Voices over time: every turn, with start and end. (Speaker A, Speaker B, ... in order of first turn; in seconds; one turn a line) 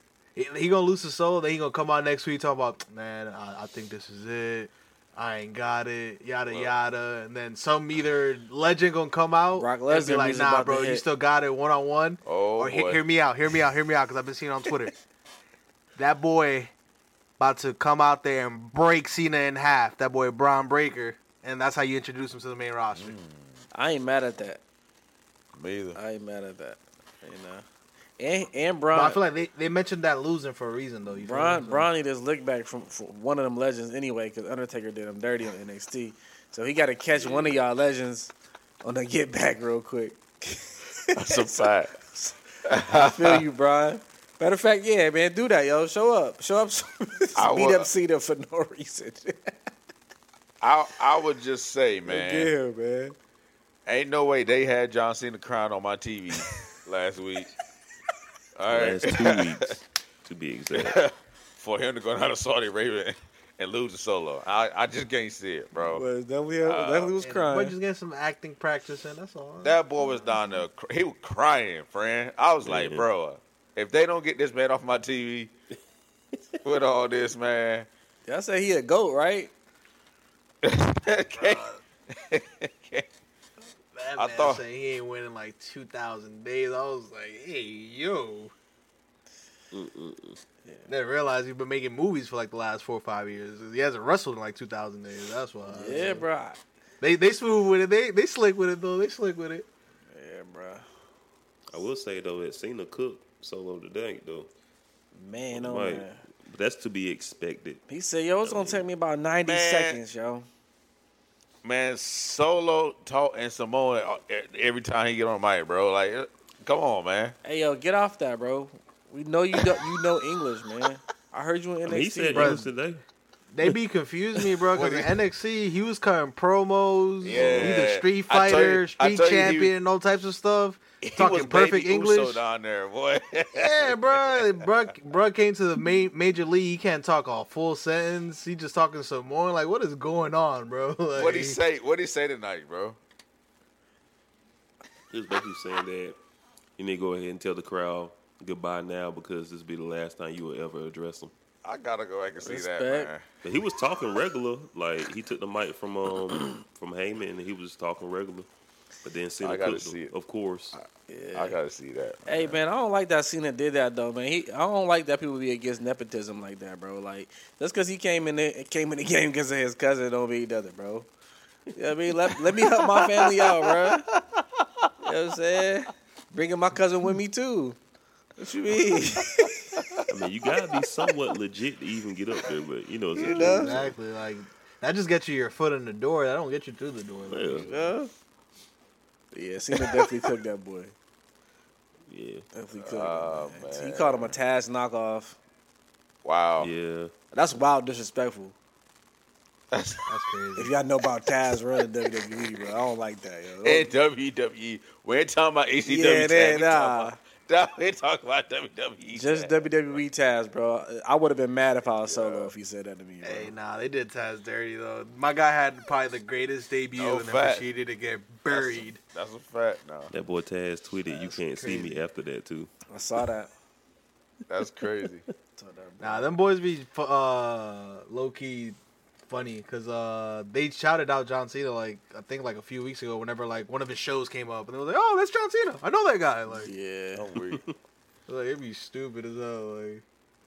Speaker A: 0.3-14.9
Speaker B: 6.5-6.7
Speaker C: 9.6-11.1
Speaker B: 12.2-13.0
Speaker A: 16.0-16.7
Speaker A: 17.4-23.1
Speaker B: 22.9-23.6
Speaker C: 23.7-24.6
Speaker B: 25.6-26.0
Speaker C: 25.9-27.7
Speaker C: 28.2-29.2
Speaker A: 28.9-31.9
Speaker C: 31.2-42.3
Speaker D: 37.1-37.6
Speaker B: 41.1-42.0
Speaker B: 42.6-43.4
Speaker C: 42.9-49.6
Speaker B: 47.4-47.9
Speaker B: 50.6-52.5
Speaker C: 52.1-53.2
Speaker B: 53.9-57.5
Speaker B: 58.6-59.6
Speaker D: 58.7-61.0
Speaker B: 60.7-66.1
Speaker C: 65.8-67.8
Speaker B: 66.6-67.1
Speaker A: 67.2-70.5
Speaker B: 69.6-75.5
Speaker D: 72.6-73.1
Speaker B: 76.6-77.9
Speaker C: 78.3-79.5
Speaker B: 80.6-83.1
Speaker A: 81.3-81.8
Speaker A: 84.0-88.5
Speaker B: 84.2-84.6
Speaker D: 89.7-90.4
Speaker C: 90.7-90.9
Speaker A: 90.9-96.3
Speaker C: 95.7-96.6
Speaker A: 97.0-99.7
Speaker C: 100.1-100.9
Speaker D: 101.7-104.5
Speaker C: 105.1-106.2
Speaker D: 105.5-107.8
Speaker C: 107.9-110.5
Speaker D: 108.4-108.8
Speaker B: 109.5-110.0
Speaker B: 111.6-117.3
Speaker C: 117.4-122.7
Speaker B: 119.6-120.0
Speaker D: 121.8-123.0
Speaker A: 122.3-122.7
Speaker A: 123.5-132.4
Speaker B: 124.7-125.2
Speaker B: 127.2-129.7
Speaker D: 127.3-127.8
Speaker B: 131.0-134.7
Speaker A: 133.5-141.6
Speaker B: 141.2-143.0
Speaker D: 145.1-146.2
Speaker D: 146.8-151.3
Speaker B: 151.6-153.2
Speaker C: 152.4-153.1
Speaker D: 153.4-158.5
Speaker D: 159.0-160.8
Speaker B: 159.4-160.1
Speaker B: 160.7-162.6
Speaker C: 161.1-161.6
Speaker C: 162.3-171.1
Speaker C: 171.8-174.1
Speaker B: 173.3-174.4
Speaker C: 175.0-177.8
Speaker C: 178.4-179.8
Speaker B: 179.8-180.0
Speaker D: 180.1-183.9
Speaker C: 183.2-183.9
Speaker A: 183.2-187.7
Speaker D: 187.3-187.9
Speaker C: 187.7-188.1
Speaker C: 189.3-190.9
Speaker D: 192.1-192.5
Speaker C: 192.5-195.4
Speaker B: 192.8-194.4
Speaker B: 196.2-196.7
Speaker D: 196.6-197.1
Speaker C: 197.3-198.6
Speaker B: 199.7-200.1
Speaker A: 200.1-200.7
Speaker C: 200.6-203.9
Speaker B: 203.6-210.0
Speaker C: 205.9-207.2
Speaker C: 209.1-213.5
Speaker B: 212.1-212.5
Speaker A: 213.2-219.0
Speaker B: 217.0-217.7
Speaker B: 218.5-220.1
Speaker D: 220.1-222.7
Speaker A: 221.1-222.0
Speaker C: 222.9-223.5
Speaker B: 224.5-225.2
Speaker C: 225.6-226.4
Speaker A: 226.0-236.7
Speaker C: 236.5-237.2
Speaker B: 237.1-237.6
Speaker D: 237.3-237.8
Speaker A: 238.3-240.0